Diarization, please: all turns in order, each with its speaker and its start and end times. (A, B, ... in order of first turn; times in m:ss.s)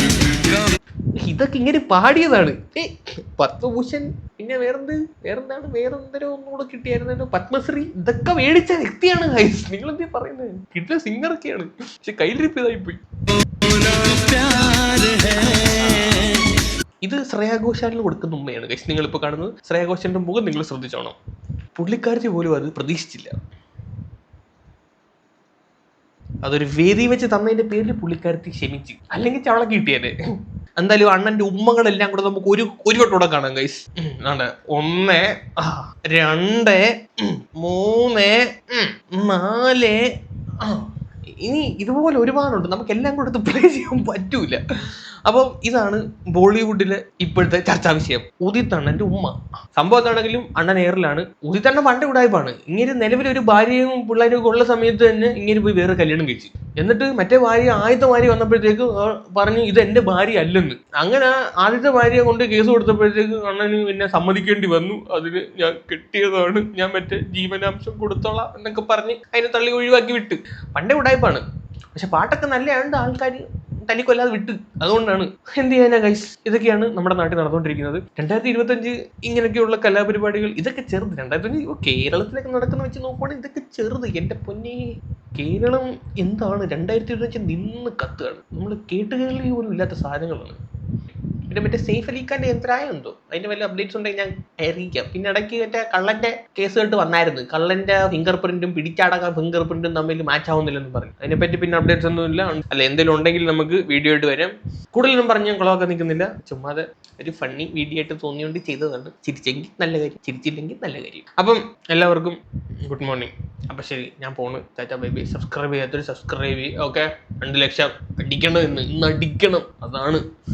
0:01.2-0:13.0 A
0:13.7-0:16.4 A
0:17.0-0:21.2 A
0:21.8-0:23.3 A
0:26.4-0:30.1 A
0:30.8-0:40.0 A
0:41.4-0:44.6 A
0:45.2-1:30.6 A
1:31.5-2:00.2 A